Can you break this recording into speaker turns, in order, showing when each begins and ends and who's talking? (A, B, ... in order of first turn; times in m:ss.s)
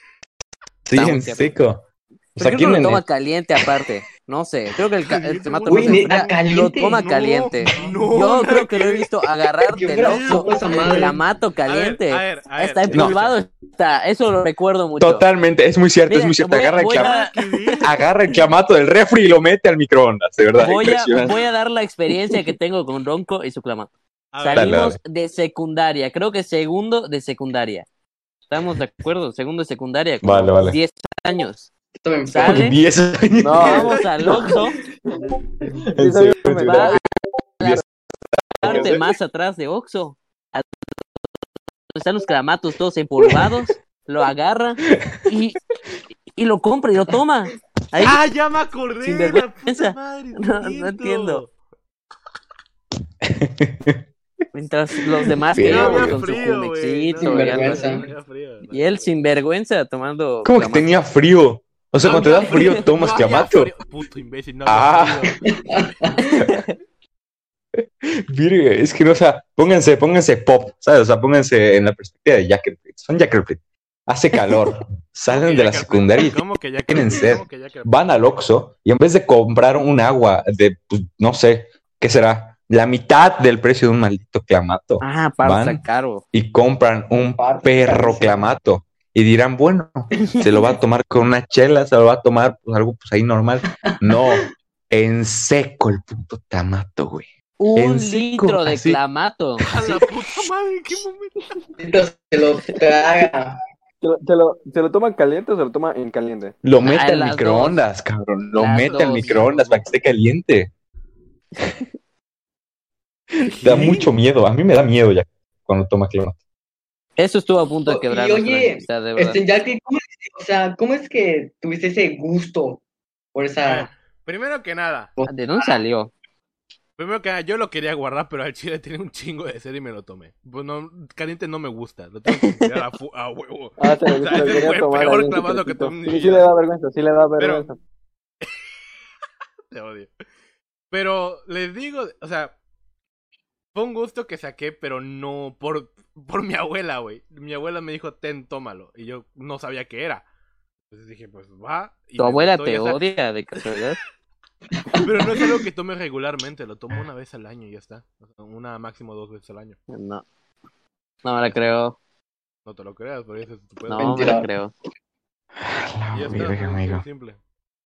0:00.8-0:03.0 A
0:00.9-0:01.5 B
0:02.4-0:15.2 B
0:05.0-0:06.4 C
0:05.7-0:07.0 D
0:07.0-0:09.2 C
0:09.7-0:11.2 D
0:09.9-0:13.4 C
0:15.0-0:17.2 A
0:16.1-0:17.8 B
0:16.9-0:17.9 C
0:17.8-0:21.4 A
0:20.6-0:27.8 B
0:24.3-0:24.7 C
0:24.5-0:25.0 A
0:28.5-0:31.7 B
0:30.2-0:30.8 A
0:32.0-0:32.6 D
0:32.3-0:32.8 B
0:32.4-0:34.0 A
0:33.4-0:34.0 E
0:33.5-0:34.8 B
0:35.8-0:37.0 E
0:35.9-0:39.0 A
0:36.6-0:37.0 B
0:38.6-0:40.8 B
0:41.9-0:45.6 B
0:44.9-0:45.2 A
0:46.3-0:48.2 B
0:48.0-0:51.5 C
0:49.0-0:51.4 B
0:53.2-0:54.0 A
0:54.5-0:58.1 B
0:55.4-0:56.2 A
0:55.6-0:59.2 C
0:57.2-0:58.1 D
0:58.7-1:01.0 B
1:00.4-1:03.7 A
1:02.0-1:06.0 C
1:02.2-1:02.8 B
1:04.6-1:05.3 A
1:05.5-1:06.3 D
1:06.2-1:06.7 B
1:06.3-1:06.6 A
1:07.7-1:16.4 A
1:15.3-1:17.9 C
1:16.9-1:39.0 A
1:25.0-1:26.2 B
1:27.4-1:28.4 D
1:34.1-1:34.4 D
1:37.6-1:39.6 B
1:39.6-1:40.0 A
1:39.7-1:41.6 C
1:41.8-1:43.6 D
1:44.0-1:46.6 E
1:46.6-1:50.7 A
1:46.8-1:47.8 B
1:48.6-1:49.4 B
1:48.7-1:49.9 C
1:53.4-1:56.4 A
1:53.6-1:54.0 C
1:57.2-1:59.4 B
1:57.9-2:02.8 D
2:03.3-2:03.9 D
2:03.6-2:05.1 C
2:05.2-2:05.8 D
2:05.3-2:06.1 B
2:07.0-2:16.5 C
2:12.3-2:12.7 B
2:13.8-2:17.8 E
2:17.4-2:17.7 C
2:19.7-2:20.1 C
2:20.9-2:22.5 C
2:23.7-2:30.2 C
2:30.9-2:33.1 C
2:32.2-2:34.0 B
2:34.8-2:35.4 D
2:35.0-2:39.8 C
2:39.9-2:40.2 B
2:41.2-2:42.0 B
2:42.6-2:44.4 C
2:43.8-2:44.7 B
2:44.0-2:44.5 D
2:45.6-2:47.0 A
2:46.1-2:47.4 C